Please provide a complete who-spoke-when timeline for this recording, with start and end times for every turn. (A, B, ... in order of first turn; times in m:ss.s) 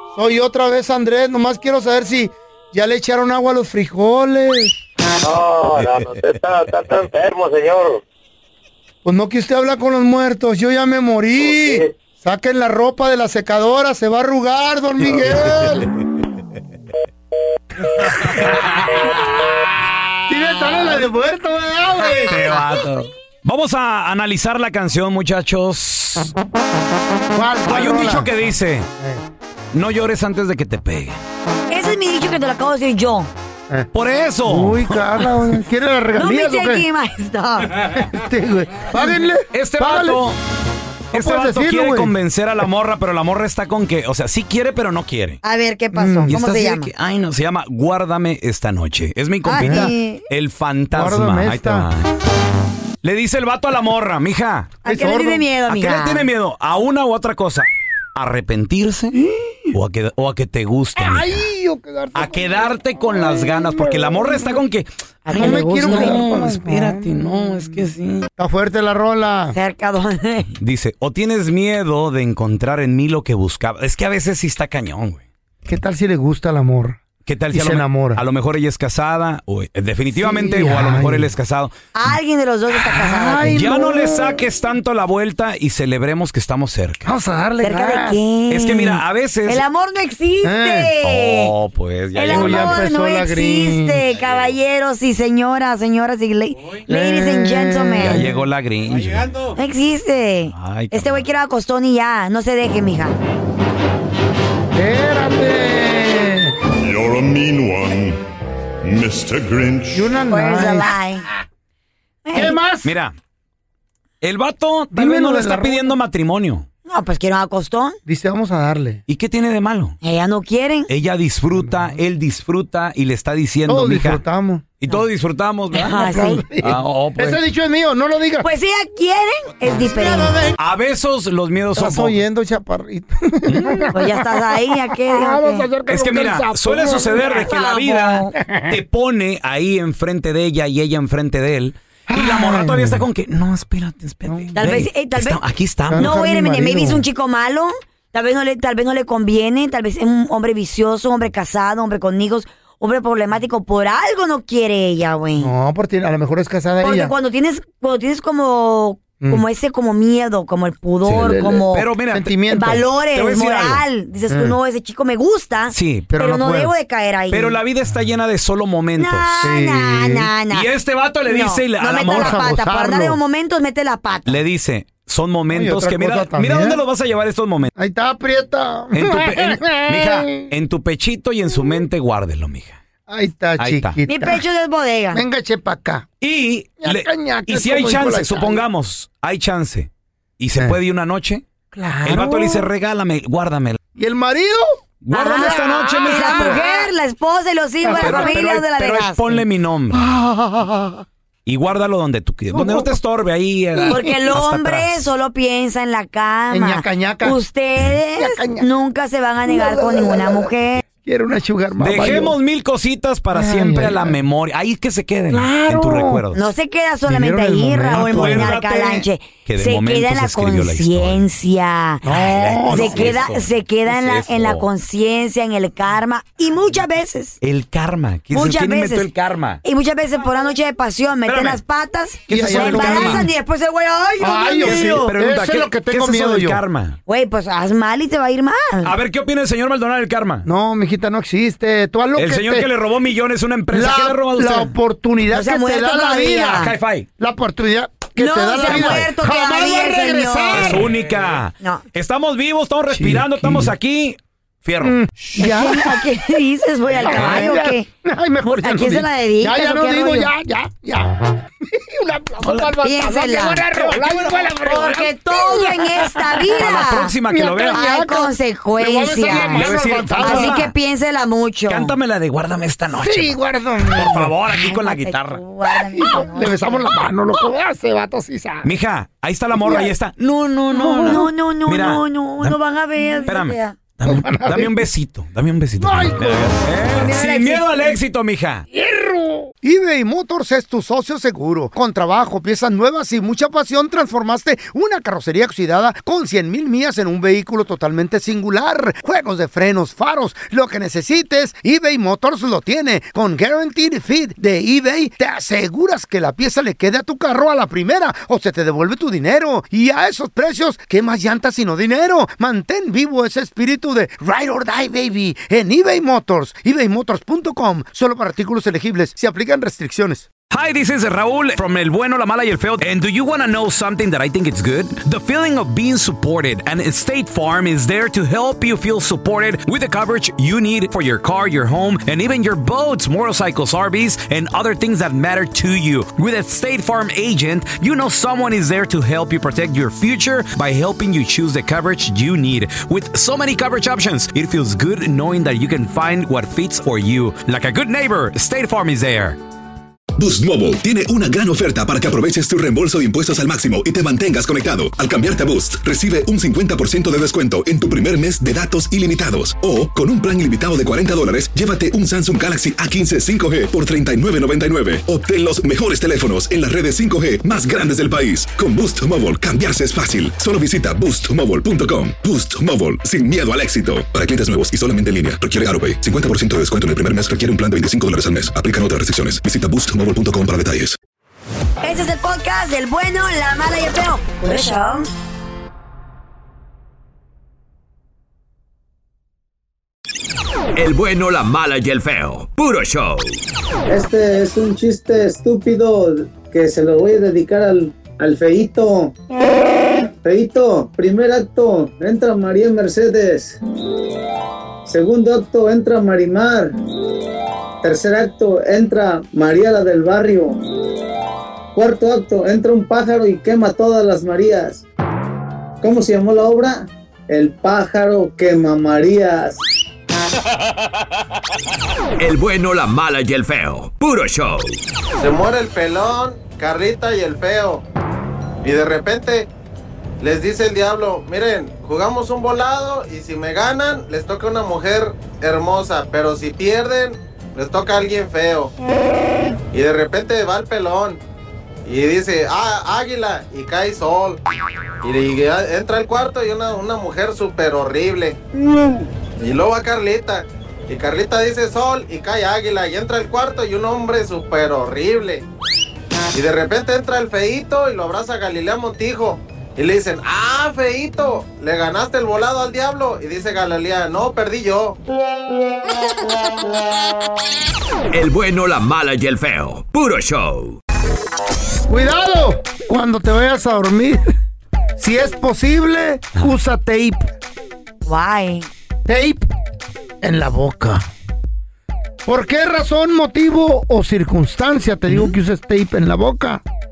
0:00.1-0:04.8 A
0:05.2-0:08.0 B
0:09.0-0:15.9 A
0:11.4-0:11.9 B
0:18.0-0:18.5 A
0:18.0-0:19.1 C
0:20.3-0:22.5 A
0:22.2-0:26.3 C
0:27.3-0:28.3 A
0:27.7-0:28.9 C
0:29.7-0:31.2 C
0:31.7-0:33.3 D
0:33.9-0:35.3 C
0:34.4-0:36.9 A
0:36.2-0:37.8 D
0:37.9-0:40.2 A
0:39.5-0:40.4 C
0:41.1-0:42.1 A
0:41.1-0:45.4 C
0:45.4-0:46.9 D
0:45.9-0:46.4 A
0:46.3-0:52.1 C
0:49.4-0:50.2 D
0:49.6-0:49.9 A
0:50.9-0:51.9 A
0:53.0-0:54.8 C
0:54.8-0:56.3 D
0:54.8-0:55.4 A
0:55.7-0:59.2 C
0:59.2-0:59.7 A
0:59.7-1:01.4 C
1:01.0-1:04.5 A
1:02.2-1:08.3 C
1:05.2-1:06.2 D
1:05.3-1:07.2 A
1:08.4-1:09.6 A
1:09.5-1:10.5 D
1:10.6-1:15.2 C
1:15.6-1:17.0 A
1:17.3-1:21.7 C
1:17.5-1:18.2 A
1:20.2-1:21.3 A
1:21.9-1:23.6 D
1:22.8-1:24.5 A
1:23.5-1:27.1 C
1:27.0-1:28.2 A
1:27.6-1:31.5 D
1:28.5-1:29.6 C
1:30.4-1:30.9 A
1:31.0-1:32.8 C
1:32.2-1:38.2 D
1:32.2-1:34.1 A
1:36.9-1:38.3 A
1:38.0-1:39.4 C
1:39.6-1:43.2 D
1:40.5-1:41.2 C
1:44.7-1:46.6 A
1:46.8-1:48.2 E
1:48.8-1:50.0 E
1:49.9-1:50.9 A
1:50.3-1:51.3 D
1:52.2-1:52.6 D
1:52.3-1:52.9 A
1:52.8-1:53.2 C
1:54.2-1:56.7 C
1:54.9-1:55.9 A
1:56.9-1:58.0 D
1:58.1-1:59.0 A
1:59.1-2:00.0 C
2:00.0-2:00.9 D
2:00.9-2:04.2 C
2:01.6-2:02.0 A
2:03.7-2:04.6 A
2:04.8-2:06.0 C
2:05.7-2:06.4 D
2:05.9-2:08.5 A
2:06.6-2:07.4 C
2:08.4-2:10.4 D
2:09.9-2:10.6 A
2:10.6-2:12.2 C
2:11.8-2:17.4 A
2:13.5-2:13.9 C
2:13.9-2:15.7 D
2:15.9-2:26.1 C
2:17.2-2:18.3 D
2:18.3-2:18.8 A
2:22.1-2:23.0 A
2:24.3-2:24.6 A
2:24.6-2:25.4 D
2:25.9-2:27.0 A
2:26.0-2:35.5 D
2:35.4-2:37.1 A
2:36.8-2:41.9 D
2:41.0-2:42.4 C
2:41.2-2:42.8 A
2:42.5-2:47.6 D
2:43.1-2:43.8 C
2:44.3-2:44.6 A
2:45.7-2:46.1 C
2:46.1-2:46.7 A
2:47.3-2:49.3 C
2:49.0-2:50.7 D
2:49.4-2:50.3 A
2:50.5-2:52.4 C
2:51.3-2:54.4 D
2:51.9-2:53.2 A
2:54.3-2:57.7 C
2:55.5-2:56.8 A
2:57.8-3:00.5 A
2:58.9-3:02.8 C
3:03.1-3:04.4 A
3:03.6-3:04.0 C
3:04.1-3:05.2 D
3:05.1-3:06.1 A
3:06.2-3:11.4 C
3:06.8-3:08.6 A
3:11.7-3:12.7 A
3:12.0-3:13.8 C
3:14.0-3:16.9 A
3:15.0-3:16.6 C
3:15.1-3:19.4 D
3:17.8-3:18.4 A
3:17.9-3:20.0 C
3:19.9-3:21.0 A
3:21.5-3:25.0 C
3:22.5-3:23.0 A
3:23.8-3:24.0 A
3:23.9-3:30.8 D
3:26.5-3:27.4 A
3:28.2-3:28.7 A
3:29.5-3:32.4 A
3:31.8-3:36.4 C
3:33.3-3:34.2 A
3:35.3-3:36.2 A
3:36.3-3:42.0 D
3:37.1-3:38.8 A
3:37.9-3:41.3 C
3:42.0-3:43.2 A
3:42.1-3:44.6 C
3:42.6-3:47.4 D
3:47.4-3:49.6 C
3:48.3-3:49.1 D
3:49.6-3:55.1 D
3:51.3-3:51.6 C
3:52.3-3:53.3 C
3:52.3-3:53.3 A
3:54.2-3:56.6 A
3:54.6-3:57.0 C
3:57.1-3:58.9 D
3:58.8-4:00.5 C
4:00.4-4:02.7 A
4:02.2-4:04.7 C
4:03.7-4:11.0 A
4:05.3-4:06.7 D
4:06.6-4:07.1 C
4:08.2-4:10.9 D
4:08.6-4:09.0 C
4:10.5-4:15.0 C
4:12.9-4:13.7 A
4:14.8-4:16.2 A
4:15.4-4:17.9 D
4:17.0-4:26.8 A
4:17.1-4:17.6 C
4:18.4-4:20.3 D
4:22.4-4:22.8 C
4:22.8-4:23.9 D
4:24.6-4:27.1 D
4:26.6-4:27.8 C
4:27.3-4:30.6 A
4:27.7-4:31.9 D
4:29.3-4:30.7 C
4:31.7-4:33.4 C
4:32.9-4:34.3 A
4:33.9-4:35.4 C
4:34.5-4:36.8 D
4:35.7-4:38.7 A
4:38.6-4:42.6 C
4:39.6-4:39.9 A
4:40.7-4:41.2 A
4:41.0-4:43.8 D
4:43.3-4:48.7 C
4:44.1-4:44.9 A
4:45.8-4:46.6 A
4:46.9-4:48.0 D
4:48.7-5:20.3 A
5:20.5-5:49.4 C
5:50.2-6:21.0 F
6:21.8-6:25.1 D
6:30.8-6:33.4 G
6:33.9-6:39.2 H
6:40.2-6:43.6 H
6:44.9-6:46.8 H
6:47.8-6:50.6 H
6:51.8-6:54.8 H
6:55.8-6:59.6 H
7:02.2-7:04.8 G
7:05.2-7:07.8 I
7:08.6-7:09.5 I
7:10.2-7:18.7 I
7:19.7-7:21.2 I
7:21.8-7:24.4 I
7:25.0-7:28.4 I
7:29.4-7:35.4 I
7:36.3-7:45.0 I
7:48.1-7:50.8 G
7:51.9-7:54.2 A
7:55.0-7:57.3 A
7:58.0-7:58.7 D
7:59.1-7:59.5 A
8:00.2-8:01.0 A
8:02.2-8:06.6 A